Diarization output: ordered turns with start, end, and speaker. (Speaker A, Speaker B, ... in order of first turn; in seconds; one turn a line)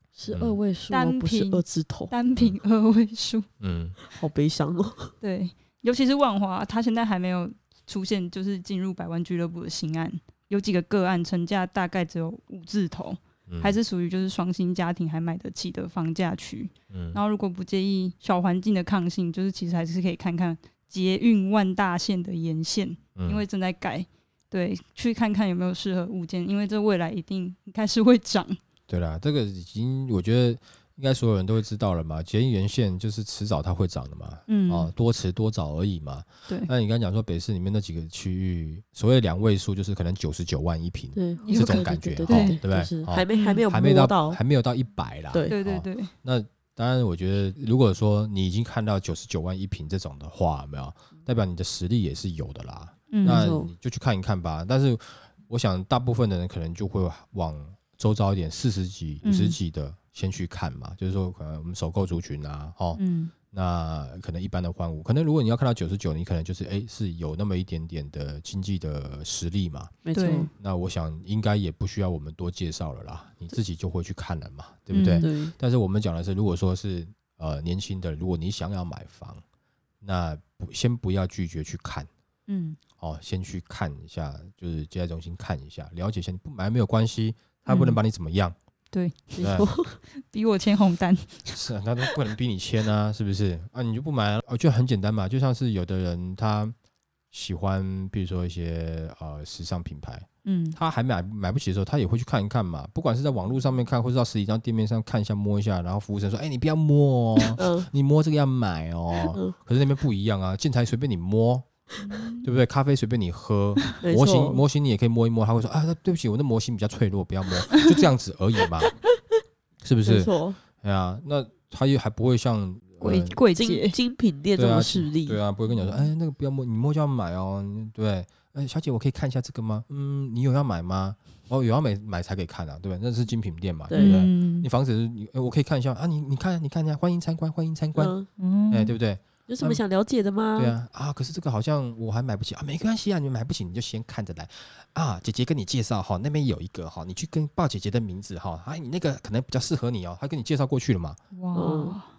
Speaker A: 0.1-2.1
Speaker B: 0.3-0.6
Speaker C: 0.9-3.5
Speaker B: 3.6-4.0
Speaker A: 4.1-5.1
Speaker C: 5.2-28.6
Speaker B: 13.5-13.8
Speaker B: 16.9-17.2
Speaker B: 23.1-23.4
Speaker B: 28.9-70.0
Speaker C: 34.5-34.9
Speaker A: 41.1-44.4
Speaker C: 41.4-42.6
Speaker C: 43.3-43.6
Speaker C: 45.5-46.1
Speaker C: 53.1-53.5
Speaker A: 53.2-53.7
Speaker C: 59.2-59.6
Speaker C: 63.0-63.3
Speaker A: 70.0-70.5
Speaker C: 70.1-70.5
Speaker B: 70.6-79.4
Speaker C: 74.9-75.3
Speaker A: 75.2-75.5
Speaker B: 80.0-82.1
Speaker C: 82.5-82.8
Speaker B: 83.0-88.5
Speaker C: 87.7-88.0
Speaker C: 88.9-89.7
Speaker A: 89.3-90.0
Speaker B: 89.4-89.7
Speaker C: 90.2-91.6
Speaker B: 91.5-96.7
Speaker B: 97.3-111.7
Speaker C: 100.4-100.8
Speaker A: 107.6-107.9
Speaker C: 112.0-112.5
Speaker B: 112.4-118.9
Speaker A: 114.0-114.6
Speaker B: 119.8-123.4
Speaker A: 120.0-120.6
Speaker C: 123.0-124.0
Speaker A: 123.5-125.4
Speaker B: 124.5-138.1
Speaker C: 125.7-126.1
Speaker A: 133.9-134.2
Speaker C: 133.9-134.7
Speaker A: 137.9-138.3
Speaker C: 138.4-138.9
Speaker B: 138.7-139.8
Speaker A: 139.5-140.7
Speaker B: 140.6-151.2
Speaker C: 151.3-152.1
Speaker A: 151.5-152.0